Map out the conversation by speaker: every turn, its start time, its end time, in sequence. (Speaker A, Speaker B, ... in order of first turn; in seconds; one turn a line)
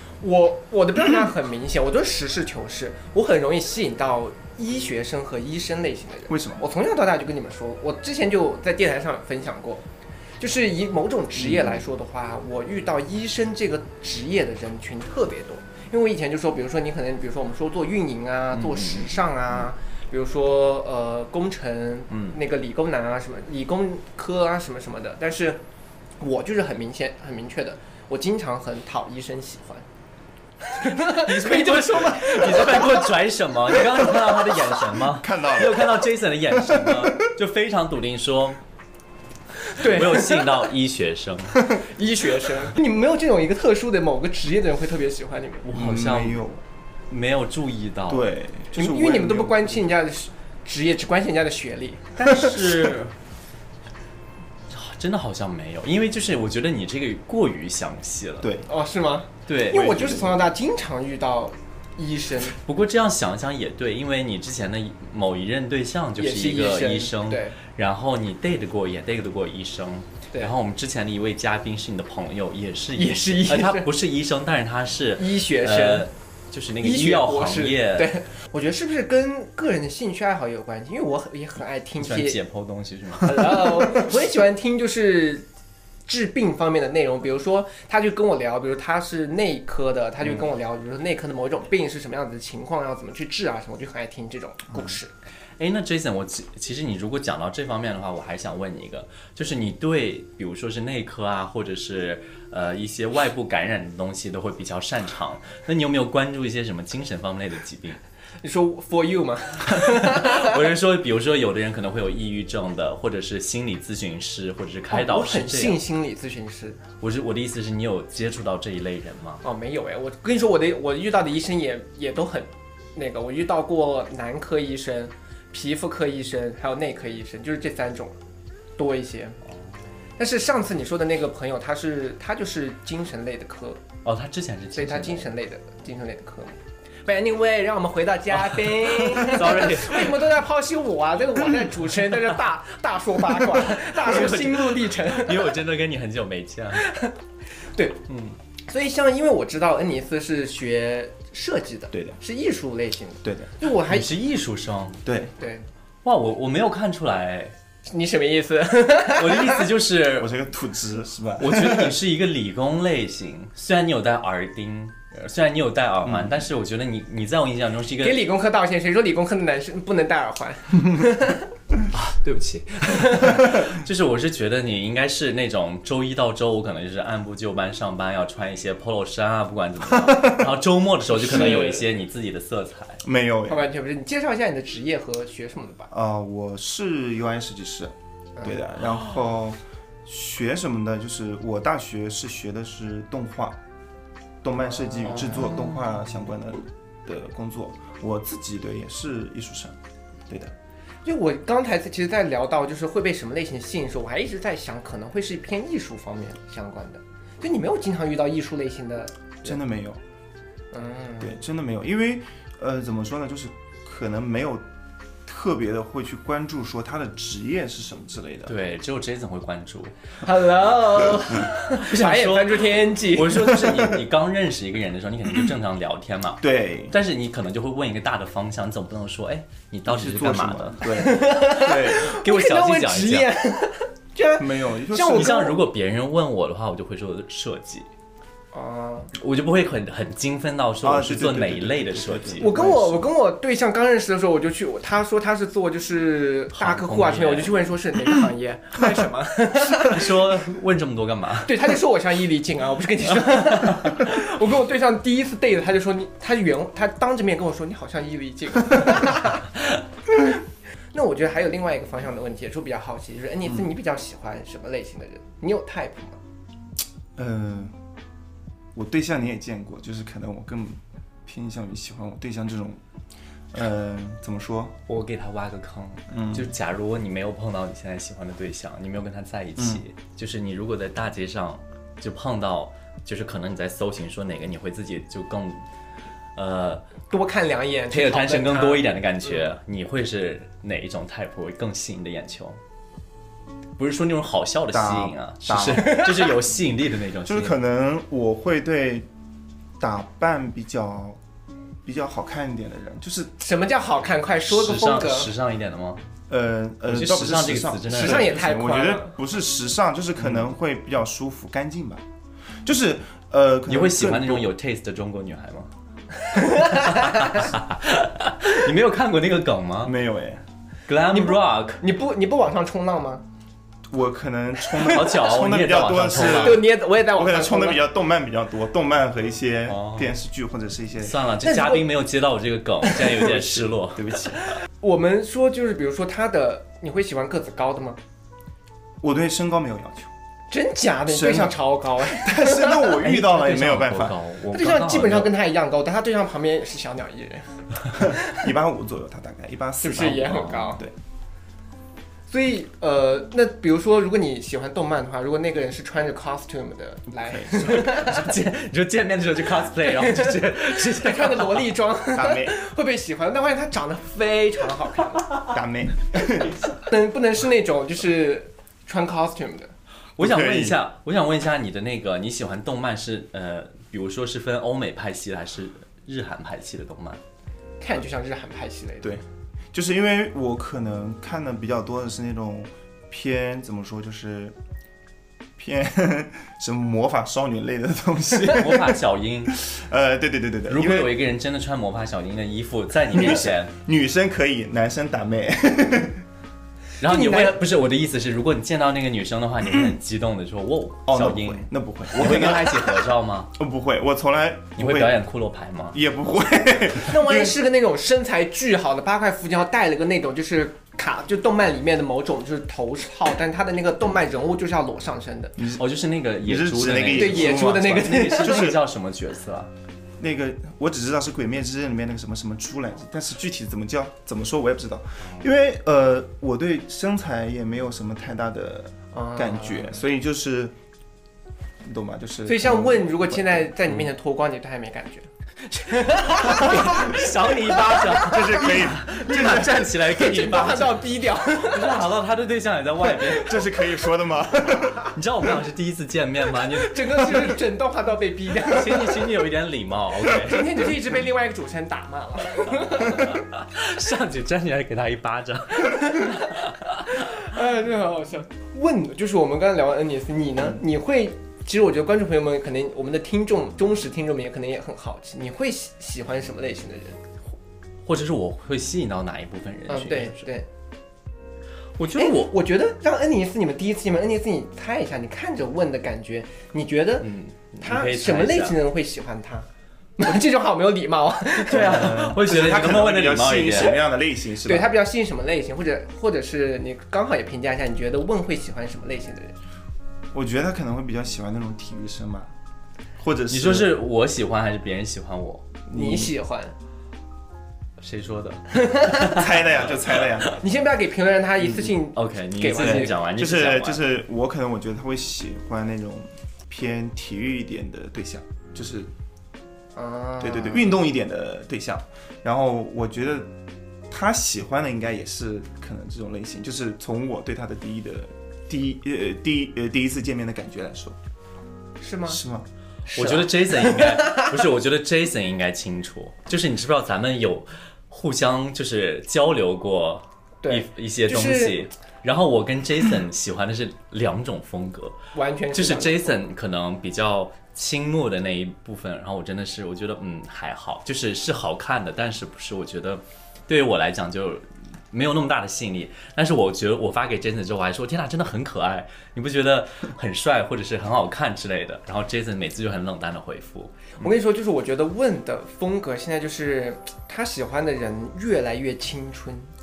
Speaker A: 0.2-9.8
Speaker B: 6.3-6.6
Speaker A: 10.4-25.6
Speaker C: 18.5-19.1
Speaker C: 22.1-22.4
Speaker A: 26.2-29.8
Speaker A: 30.6-33.1
Speaker C: 31.0-38.6
Speaker A: 33.9-34.2
Speaker B: 35.1-37.3
Speaker A: 39.7-40.7
Speaker C: 39.8-41.6
Speaker A: 41.6-45.6
Speaker C: 45.6-46.4
Speaker B: 45.7-46.6
Speaker C: 47.1-48.3
Speaker B: 48.1-49.8
Speaker A: 48.7-52.6
Speaker C: 52.2-53.1
Speaker C: 54.7-58.5
Speaker B: 58.4-58.7
Speaker A: 58.7-62.5
Speaker C: 59.5-60.4
Speaker C: 62.6-78.1
Speaker A: 66.2-67.6
Speaker A: 73.0-73.9
Speaker A: 75.2-76.1
Speaker A: 76.8-82.4
Speaker C: 82.0-84.0
Speaker A: 83.2-85.5
Speaker A: 86.1-95.1
Speaker C: 95.6-108.0
Speaker A: 108.4-110.6
Speaker C: 109.7-115.8
Speaker A: 114.9-116.8
Speaker C: 117.0-119.4
Speaker A: 119.4-128.2
Speaker A: 128.8-129.4
Speaker A: 130.2-133.8
Speaker C: 134.0-135.3
Speaker A: 134.7-145.6
Speaker C: 138.5-140.2
Speaker C: 143.9-146.9
Speaker A: 146.8-147.1
Speaker A: 147.7-148.0
Speaker C: 148.1-148.4
Speaker A: 148.7-154.1
Speaker B: 153.2-153.5
Speaker C: 153.8-155.0
Speaker B: 155.0-155.3
Speaker A: 155.4-155.7
Speaker C: 156.0-157.5
Speaker A: 157.8-159.7
Speaker C: 159.1-160.3
Speaker B: 160.2-161.9
Speaker C: 161.4-168.2
Speaker B: 166.0-166.4
Speaker A: 168.0-171.5
Speaker C: 171.9-183.0
Speaker A: 172.9-173.3
Speaker B: 179.9-180.5
Speaker A: 181.1-181.9
Speaker B: 183.0-183.6
Speaker A: 183.4-185.9
Speaker B: 185.9-193.6
Speaker B: 194.4-199.8
Speaker A: 194.8-195.6
Speaker B: 200.3-200.5
Speaker A: 201.0-209.6
Speaker B: 209.4-210.0
Speaker A: 210.7-211.3
Speaker B: 211.2-214.7
Speaker B: 215.2-218.5
Speaker C: 218.4-219.9
Speaker A: 220.2-223.8
Speaker C: 221.7-230.8
Speaker B: 226.4-226.9
Speaker B: 229.9-232.1
Speaker A: 230.9-235.6
Speaker C: 231.7-233.3
Speaker B: 234.4-235.3
Speaker C: 235.1-237.9
Speaker A: 238.5-239.1
Speaker C: 239.1-242.5
Speaker B: 240.8-243.0
Speaker A: 242.4-250.1
Speaker C: 246.5-247.5
Speaker C: 249.7-251.7
Speaker A: 251.4-259.6
Speaker A: 260.9-266.2
Speaker B: 267.1-267.8
Speaker B: 268.7-272.8
Speaker B: 273.5-274.7
Speaker C: 274.9-285.6
Speaker B: 276.1-276.5
Speaker C: 286.4-286.8
Speaker A: 287.1-289.5
Speaker C: 287.9-292.6
Speaker C: 293.8-297.6
Speaker B: 294.7-296.1
Speaker A: 295.7-296.3
Speaker B: 297.2-299.1
Speaker B: 299.8-301.2
Speaker B: 301.8-303.3
Speaker A: 303.4-305.3
Speaker C: 304.4-306.0
Speaker B: 306.3-312.0
Speaker C: 306.9-308.4
Speaker A: 307.9-309.1
Speaker B: 312.6-314.5
Speaker C: 313.7-315.7
Speaker A: 316.3-317.4
Speaker C: 316.5-319.9
Speaker B: 319.8-320.4
Speaker C: 320.9-321.8
Speaker A: 321.1-323.2
Speaker B: 323.9-331.2
Speaker A: 324.6-325.2
Speaker C: 324.9-326.6
Speaker A: 326.1-327.9
Speaker C: 329.7-330.1
Speaker C: 331.0-334.3
Speaker A: 331.4-331.9
Speaker A: 332.8-333.3
Speaker B: 333.3-334.4
Speaker A: 334.8-338.0
Speaker B: 339.0-340.1
Speaker A: 340.5-343.2
Speaker B: 341.1-344.2
Speaker C: 343.0-345.3
Speaker A: 344.5-348.5
Speaker B: 347.9-350.9
Speaker A: 349.8-350.8
Speaker C: 350.3-350.7
Speaker A: 352.3-358.3
Speaker B: 357.2-357.8
Speaker C: 357.7-361.7
Speaker A: 359.9-365.4
Speaker B: 362.1-362.5
Speaker B: 365.5-366.7
Speaker A: 366.8-369.7
Speaker C: 370.2-377.2
Speaker B: 370.2-370.8
Speaker A: 377.8-379.1
Speaker B: 379.0-384.6
Speaker B: 385.6-391.1
Speaker C: 388.5-389.6
Speaker C: 390.7-393.7
Speaker B: 393.1-396.2
Speaker C: 397.0-403.5
Speaker A: 397.0-397.6
Speaker B: 401.1-402.8
Speaker A: 402.5-402.8
Speaker B: 403.5-405.2
Speaker C: 404.8-406.0
Speaker B: 405.9-407.6
Speaker A: 407.0-415.6
Speaker B: 415.6-415.8
Speaker C: 415.7-419.7
Speaker B: 416.4-418.8
Speaker A: 417.1-418.8
Speaker B: 420.2-430.7
Speaker A: 429.1-430.0
Speaker B: 431.8-433.7
Speaker A: 432.4-442.0
Speaker C: 435.9-443.7
Speaker B: 438.0-439.8
Speaker B: 443.2-445.1
Speaker C: 445.1-447.3
Speaker A: 446.7-449.3
Speaker C: 448.6-450.8
Speaker A: 450.3-453.4
Speaker C: 453.1-456.6
Speaker A: 457.1-467.2
Speaker C: 468.1-470.5
Speaker A: 469.9-470.7
Speaker C: 472.0-472.5
Speaker A: 472.1-479.7
Speaker C: 477.2-478.8
Speaker A: 480.2-482.2
Speaker C: 481.6-484.0
Speaker B: 481.7-484.9
Speaker A: 484.6-489.5
Speaker B: 490.3-492.5
Speaker B: 493.2-493.9
Speaker C: 493.5-495.6
Speaker A: 495.9-496.7
Speaker B: 495.9-496.3
Speaker C: 498.0-499.5
Speaker A: 498.7-499.5
Speaker B: 499.2-500.6
Speaker A: 500.4-503.2
Speaker C: 501.6-504.0
Speaker B: 502.8-509.1
Speaker A: 509.9-511.0
Speaker B: 510.4-513.5
Speaker B: 514.1-521.2
Speaker A: 522.0-522.4
Speaker B: 522.3-522.7
Speaker A: 523.1-524.6
Speaker C: 523.1-535.2
Speaker A: 530.6-531.8
Speaker A: 535.3-536.4
Speaker C: 535.7-554.3
Speaker A: 554.2-559.7